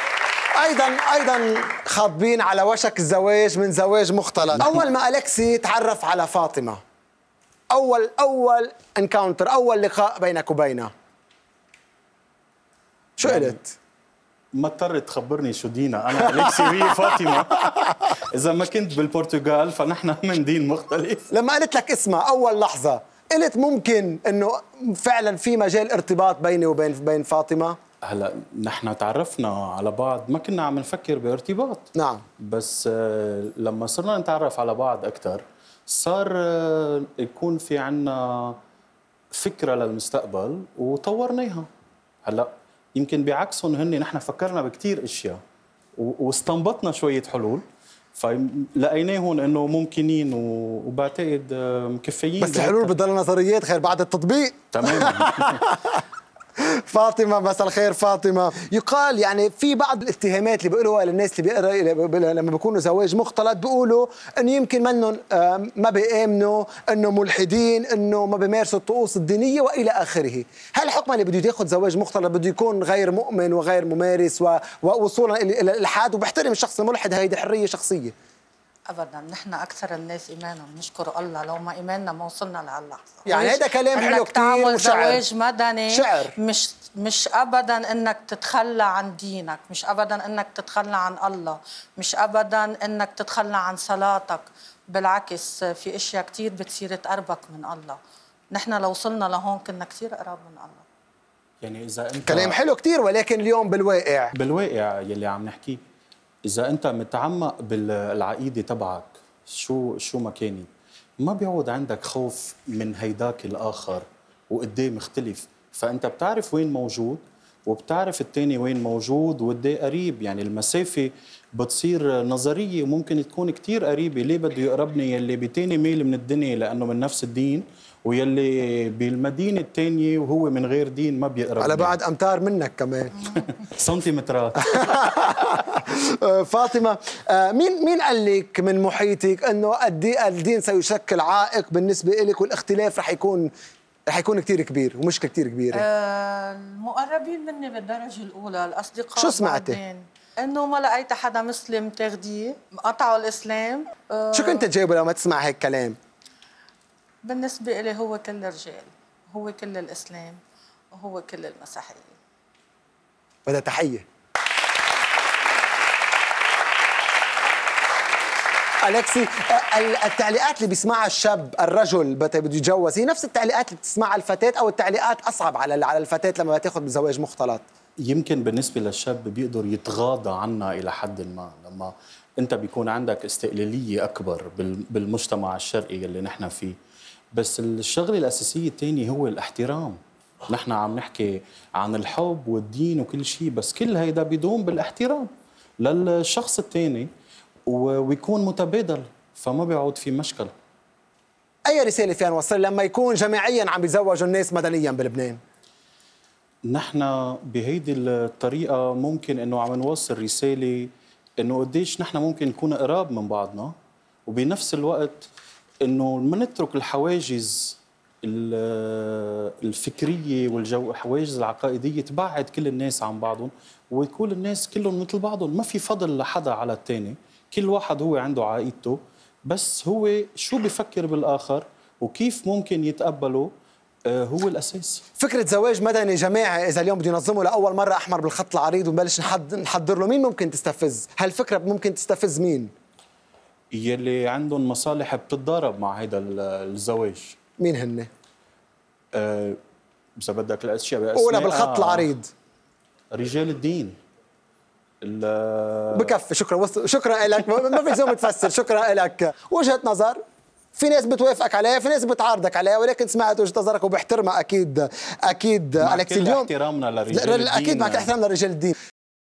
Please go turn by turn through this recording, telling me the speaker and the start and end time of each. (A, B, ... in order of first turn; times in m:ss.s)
0:00.6-0:06.8 A
0:04.5-0:04.8 B
0:07.7-0:10.9 A
0:13.2-0:13.7 A
0:13.2-0:13.6 B
0:14.5-0:21.3 B
0:21.3-0:27.8 A
0:28.0-0:31.9 B
0:32.0-0:32.2 A
0:32.4-0:38.6 B
0:39.3-0:41.7 B
0:42.2-0:45.4 B
0:46.0-0:47.6 B
0:48.2-0:52.9 B
0:52.4-0:56.0 A
0:54.7-0:55.6 B
0:56.6-1:18.1 A
1:18.9-1:38.0 C
1:23.2-1:25.2 A
1:25.9-1:26.4 A
1:38.5-1:40.8 C
1:41.6-1:42.6 B
1:42.3-1:44.3 A
1:44.3-1:45.8 B
1:46.5-1:50.7 B
1:51.2-2:12.0 B
2:11.6-2:13.2 A
2:13.2-2:15.3 B
2:14.6-2:23.5 A
2:24.1-2:25.8 A
2:25.7-2:34.7 C
2:29.2-2:29.8 A
2:34.3-2:36.0 A
2:37.2-2:40.4 C
2:40.9-2:42.1 C
2:43.4-2:44.1 A
2:48.8-2:57.6 A
2:58.0-3:06.8 B
3:07.3-3:15.3 B
3:15.8-3:17.1 B
3:17.7-3:20.5 B
3:21.7-3:25.4 A
3:26.7-3:33.7 B
3:34.3-3:35.3 B
3:35.8-3:53.5 B
3:54.1-3:55.0 B
3:55.2-4:02.7 A
4:03.7-4:07.4 B
4:07.6-4:08.1 A
4:09.1-4:09.6 B
4:10.2-4:12.1 B
4:11.1-4:12.3 A
4:13.1-4:14.0 B
4:15.0-4:16.2 B
4:15.9-4:20.2 A
4:20.8-4:26.5 A
4:25.8-4:28.1 B
4:27.1-4:28.8 A